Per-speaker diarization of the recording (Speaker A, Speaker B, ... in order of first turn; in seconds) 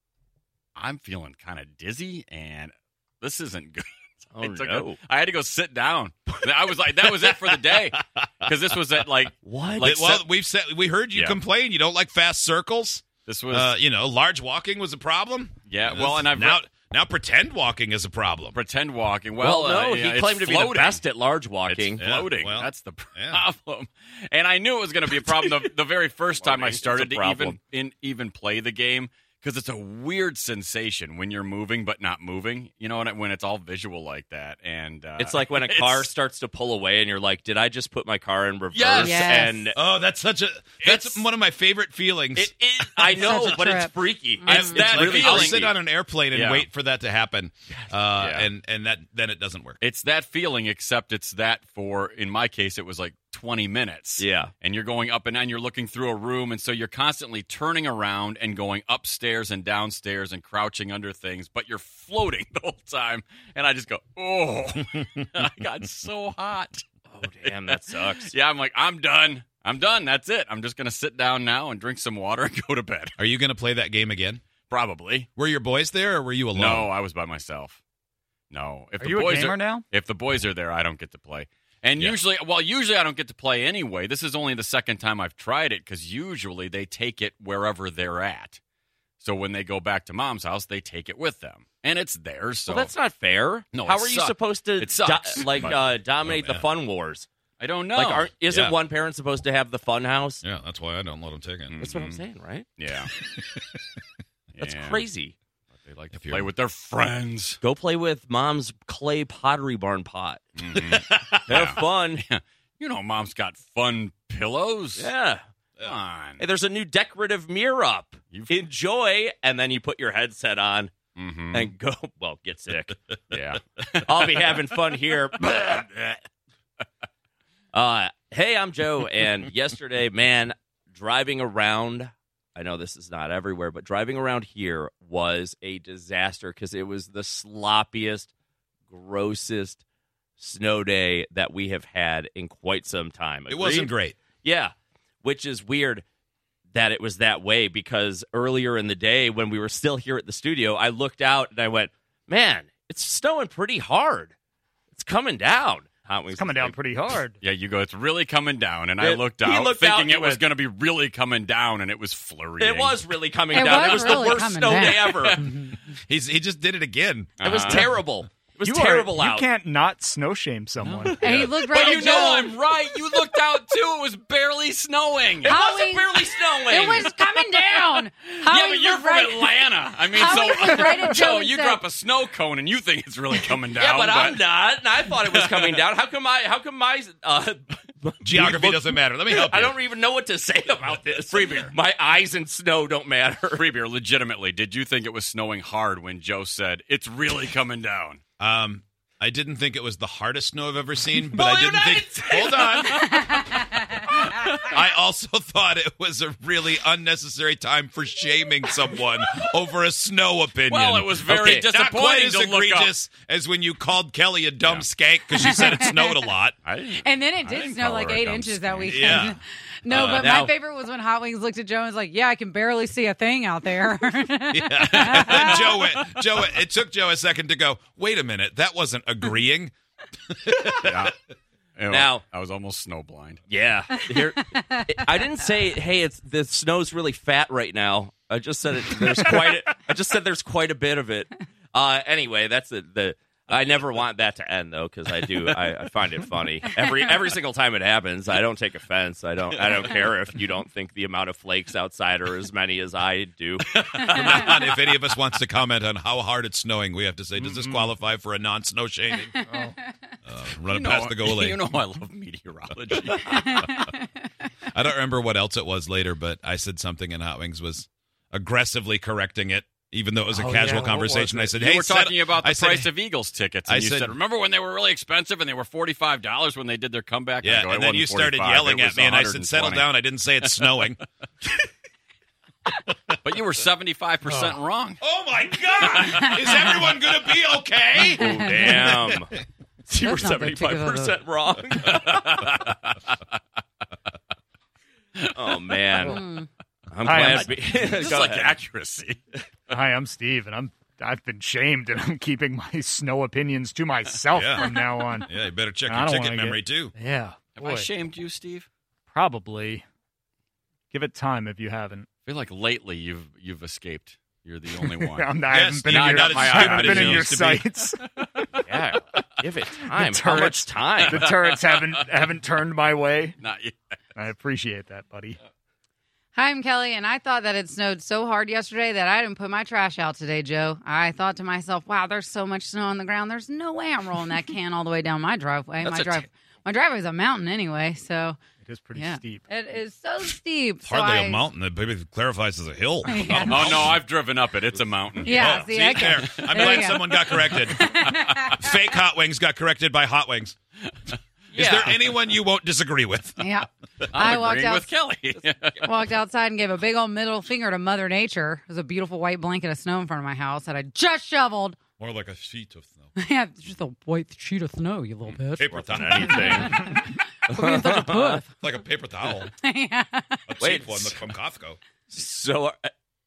Speaker A: 0.8-10.2, 11.1-11.4, 13.2-13.7, 15.7-16.6, 18.5-21.1, 21.7-36.1, 38.7-39.5, 40.8-41.3, 44.4-45.8, 46.3-46.7, 48.1-48.5, 49.8-66.8, 67.4-73.1, 74.7-75.3, 76.5-77.8, 78.5-88.6, 89.2-92.9, 93.7-96.0, 97.6-98.3, 101.7-102.2, 102.8-103.1, 104.5-105.1, 105.7-107.6, 110.6-115.1, 115.8-116.4, 118.3-118.5, 121.2-121.7, 123.3-126.2, 157.4-165.5, 167.4-167.9, 171.2-175.6, 176.8-184.5, 185.1-185.8, 191.3-191.8, 193.5-198.2, 201.1-203.4, 204.0-204.7, 210.7-213.0, 214.6-214.9, 216.6-219.3, 224.9-225.9, 230.8-231.2, 231.8-233.4, 249.6-250.1, 253.6-255.1, 257.4-257.9, 260.7-263.7, 271.5-280.9, 283.2-285.0, 291.9-292.7, 295.4-296.1, 297.5-299.2, 307.5-308.7, 312.3-317.3, 318.2-318.5, 321.0-322.1, 323.4-324.0, 335.9-336.2, 343.3-348.5, 354.1-355.9
Speaker B: 4.4-5.0, 9.4-10.2, 19.4-22.0, 26.3-27.6, 35.2-39.8, 42.4-45.7, 54.2-54.5, 67.1-68.3, 92.7-97.3, 98.0-100.4, 101.8-102.7, 104.6-105.3, 107.6-110.4, 111.5-112.2, 115.0-115.4, 116.4-120.9, 121.5-123.0, 124.1-125.8, 127.7-138.3, 138.9-139.8, 140.4-143.9, 144.4-144.7, 145.2-146.0, 146.7-154.3, 154.9-156.8, 159.0-160.4, 162.6-165.4, 167.4-169.5, 171.9-172.4, 175.5-177.1, 183.8-193.6, 220.2-220.5, 231.9-232.2, 233.5-253.6, 288.2-289.3, 289.9-292.0, 295.3-296.2, 296.9-298.6, 318.6-321.2, 351.5-351.9, 365.7-366.7, 367.5-368.4, 370.6-371.3, 372.1-372.9
Speaker C: 9.8-18.6, 22.0-23.4, 39.7-43.1, 44.6-49.8, 73.2-74.4, 75.4-76.9, 96.2-96.7, 98.5-98.8, 100.4-101.8, 103.2-103.8, 106.1-106.5, 143.5-144.2, 166.1-167.9, 188.2-189.8, 198.4-203.2, 204.6-216.6, 217.8-219.4, 219.9-220.4, 224.5-229.7, 230.3-231.1, 254.1-259.3, 260.3-261.6, 264.7-272.9, 273.7-274.2, 277.4-281.0, 285.0-289.3, 304.3-304.7, 305.3-306.9, 315.5-317.6, 340.8-344.0, 345.2-350.6, 351.5-353.5, 362.0-363.1, 365.6-367.0, 368.6-369.5, 370.5-371.8
Speaker D: 39.0-39.6, 43.0-44.8, 163.5-165.8, 171.2-172.5, 175.4-179.5, 180.1-181.8, 203.0-203.8, 215.3-216.3, 217.0-225.8, 233.9-235.1, 259.5-259.9, 263.2-264.1, 285.8-287.0, 288.0-288.9, 289.9-291.2, 296.0-296.5, 304.7-305.2, 326.4-338.4, 338.9-341.4, 343.1-343.9, 345.2-348.6, 353.4-354.9, 355.8-361.8, 363.2-368.5, 369.4-370.4
Speaker E: 79.0-79.8, 156.3-157.4, 168.7-171.2, 259.5-259.7, 270.3-271.5, 297.1-297.5, 299.7-305.3, 305.9-307.9, 309.1-309.9, 310.9-312.1, 314.8-318.5, 319.8-323.4, 324.1-325.4, 338.6-339.5